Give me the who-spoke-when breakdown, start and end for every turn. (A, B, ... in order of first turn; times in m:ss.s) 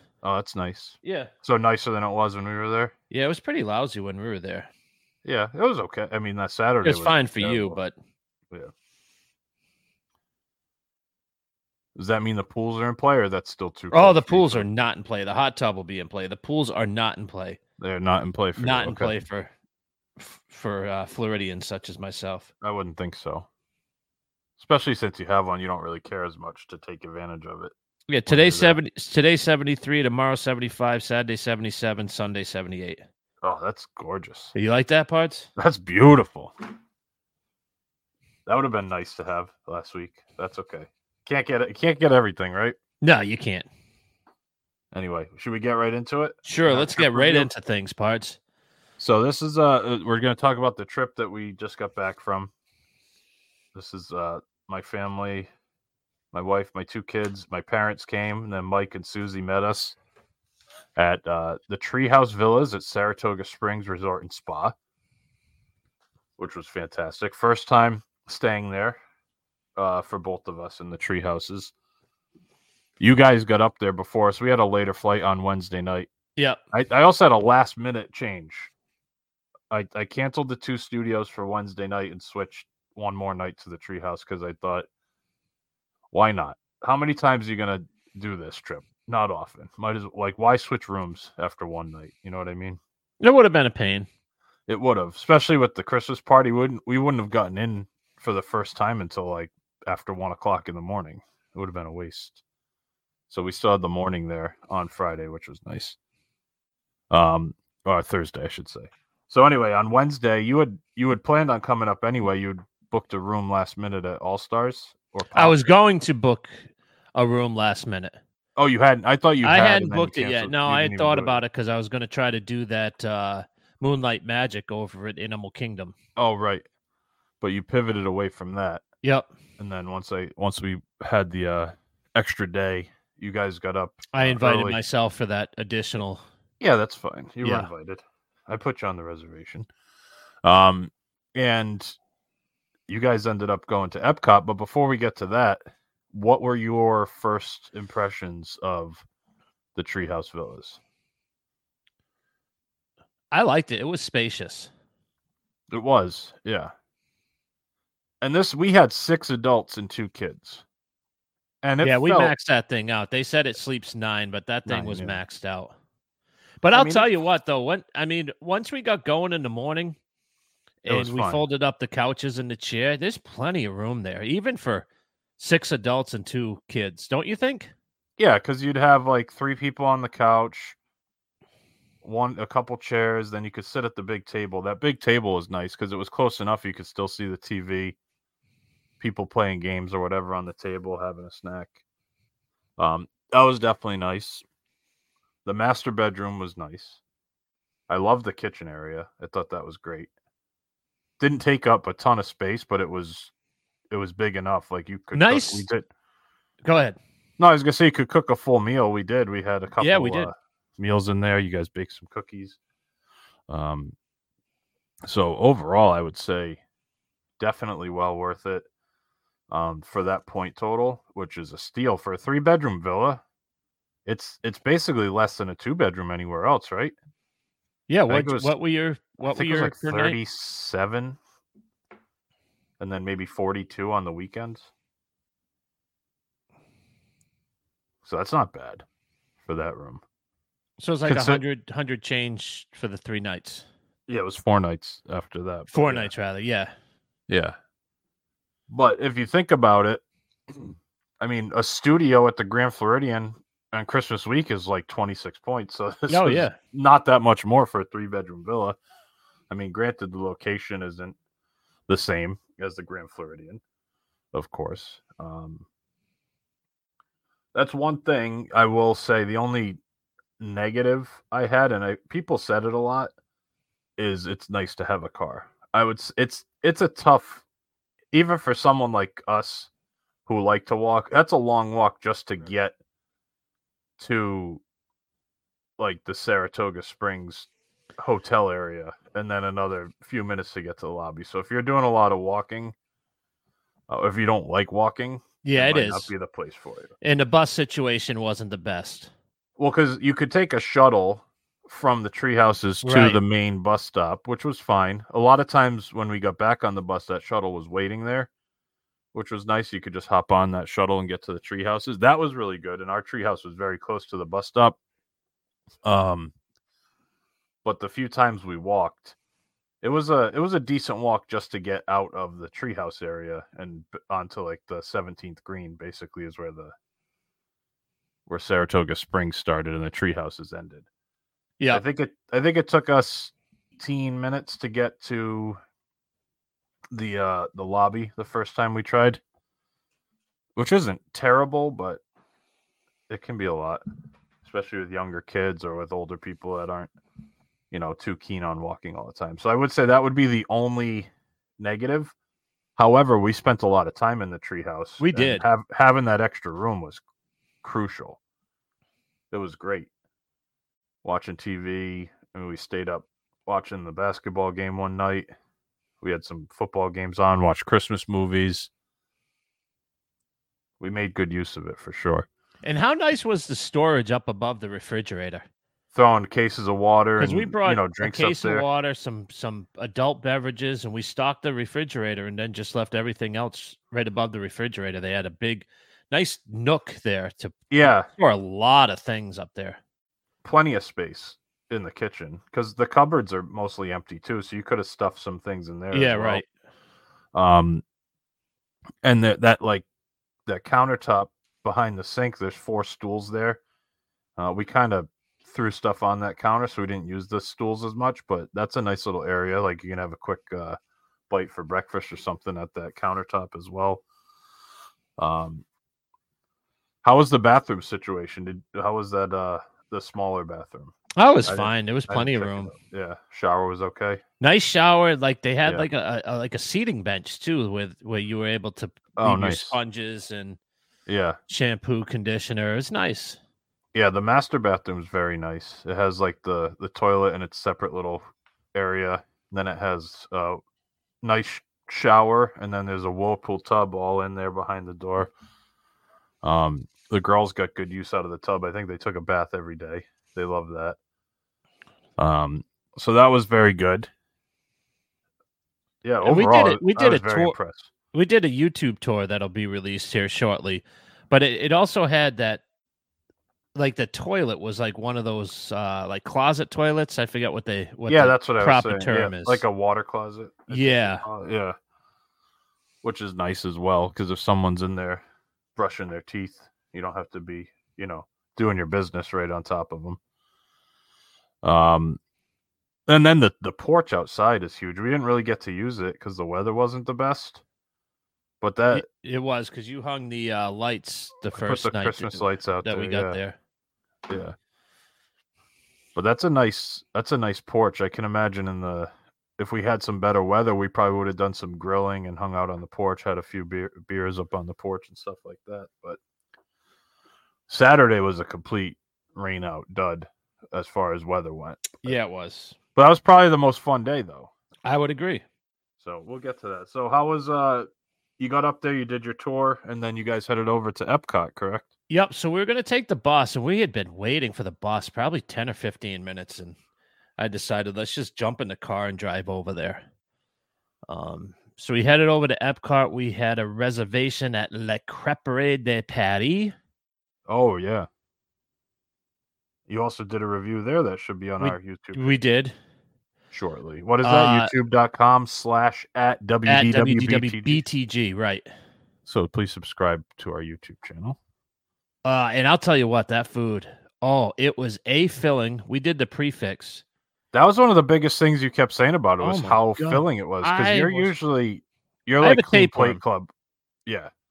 0:00.2-0:02.9 A
0:01.0-0:01.3 B
0:03.1-0:04.7 B
0:05.2-0:07.8 A
0:06.8-0:07.9 B
0:12.0-0:14.7 A
0:13.9-0:17.6 B
0:17.8-0:19.1 A
0:18.6-0:19.5 B
0:20.2-0:22.5 B
0:22.6-0:23.5 A
0:24.6-0:27.7 A
0:28.1-0:33.0 B
0:28.2-0:28.8 A
0:33.4-0:34.5 A
0:34.6-0:35.5 B
0:35.6-0:36.5 A
0:38.4-0:42.8 A
0:43.0-0:43.7 B
0:44.9-0:47.5 A
0:46.4-0:48.4 B
0:49.0-0:52.5 A
0:53.7-0:55.5 A
0:56.3-1:00.0 A
1:01.0-1:04.8 A
1:06.4-1:09.0 A
1:09.8-1:11.7 A
1:13.0-1:16.1 A
1:16.7-1:18.7 A
1:19.7-1:24.9 A
1:26.1-1:32.8 A
1:33.2-1:34.1 B
1:34.7-1:42.4 A
1:43.3-1:46.0 A
1:47.1-1:55.6 A
1:55.4-1:58.2 B
1:58.6-2:01.4 A
1:59.4-2:05.9 B
2:06.2-2:06.6 A
2:07.4-2:08.8 A
2:09.0-2:09.3 B
2:09.6-2:14.8 A
2:14.1-2:16.2 B
2:16.6-2:19.7 A
2:17.4-2:17.7 B
2:20.4-2:22.0 A
2:22.9-2:29.0 A
2:29.8-2:30.8 A
2:33.3-2:34.7 B
2:35.7-2:36.7 A
2:38.2-2:40.6 A
2:41.6-2:42.3 A
2:41.8-2:45.7 B
2:44.7-2:45.2 A
2:46.6-2:50.0 B
2:46.7-2:47.1 A
2:50.8-2:54.9 B
2:50.9-2:51.4 A
2:55.4-2:57.7 B
2:58.2-3:00.8 A
3:02.0-3:08.0 A
3:09.0-3:11.8 A
3:12.8-3:14.4 A
3:15.4-3:17.0 A
3:17.9-3:20.1 A
3:21.2-3:23.3 A
3:23.9-3:25.9 A
3:25.1-3:25.7 B
3:26.6-3:27.0 B
3:27.4-3:32.6 A
3:29.8-3:30.3 B
3:33.5-3:34.0 A
3:35.1-3:36.6 A
3:37.4-3:38.7 A
3:39.5-3:43.2 A
3:44.1-3:46.9 A
3:47.9-3:50.2 B
3:48.1-3:48.5 A
3:49.2-3:51.2 A
3:52.8-3:54.7 A
3:58.0-3:58.8 A
3:59.4-4:00.0 A
4:00.8-4:03.6 B
4:01.0-4:01.4 A
4:04.1-4:06.1 A
4:05.7-4:06.7 B
4:07.3-4:07.6 A
4:08.7-4:18.8 A
4:16.1-4:16.6 B
4:19.5-4:21.2 A
4:21.9-4:23.6 A
4:24.3-4:25.6 A
4:27.5-4:29.8 A
4:30.4-4:33.1 A
4:34.0-4:37.4 A
4:38.1-4:39.7 A
4:40.3-4:42.8 A
4:44.0-4:44.6 A
4:45.8-4:52.8 A
4:53.9-4:56.9 A
4:55.4-4:56.1 B
4:57.0-4:59.1 B
4:59.6-5:08.3 A
5:02.8-5:03.2 B
5:09.1-5:14.8 A
5:15.8-5:16.3 A
5:17.6-5:19.2 A
5:19.8-5:26.7 A
5:28.3-5:30.8 A
5:31.7-5:35.6 A
5:36.9-5:39.2 A
5:40.6-5:42.0 A
5:43.1-5:43.8 A
5:44.4-5:46.9 A
5:47.7-5:52.1 A
5:52.8-5:57.0 A
5:55.0-5:55.4 B
5:57.6-5:58.2 A
5:59.3-5:59.9 A
6:01.0-6:05.3 A
6:06.0-6:08.7 A
6:10.8-6:12.3 A
6:12.6-6:15.4 B
6:15.9-6:18.7 A
6:17.2-6:29.8 B
6:27.7-6:28.1 A
6:30.4-6:36.4 A
6:35.9-6:36.5 B
6:37.3-6:37.8 A
6:39.0-6:39.8 A
6:40.5-6:43.6 A
6:44.4-6:50.8 A
6:51.3-6:54.0 A
6:55.2-6:55.6 A
6:57.0-7:00.9 A
7:01.2-7:02.7 B
7:01.4-7:04.2 A
7:04.4-7:10.6 B
7:09.2-7:09.8 A
7:11.1-7:11.4 A
7:11.5-7:13.4 B
7:13.9-7:20.6 A
7:21.2-7:25.3 A
7:26.4-7:31.0 A
7:32.2-7:34.1 A
7:36.0-7:37.9 A
7:36.2-7:37.6 B
7:38.1-7:42.6 B
7:43.8-7:49.6 B
7:48.1-7:51.8 A
7:50.7-7:51.3 B
7:53.0-7:55.2 A
7:55.8-8:00.2 A
8:01.6-8:02.2 A
8:03.1-8:07.6 A
8:08.6-8:09.0 A
8:08.9-8:13.6 B
8:11.5-8:13.4 A
8:14.3-8:14.6 A
8:16.2-8:26.2 A
8:27.7-8:32.2 A
8:32.0-8:32.8 B
8:33.0-8:34.5 A
8:34.8-8:35.4 B
8:36.0-8:41.9 A
8:42.1-8:46.8 B
8:47.4-8:50.0 B
8:51.1-8:56.8 B
8:57.5-8:58.1 A
8:59.9-9:02.4 A
9:01.6-9:02.7 B
9:03.5-9:07.8 A
9:04.2-9:04.7 B
9:06.7-9:08.7 B
9:09.2-9:11.4 A
9:12.2-9:17.0 B
9:17.5-9:23.5 A
9:19.4-9:21.3 B
9:22.4-9:23.2 B
9:24.1-9:24.3 A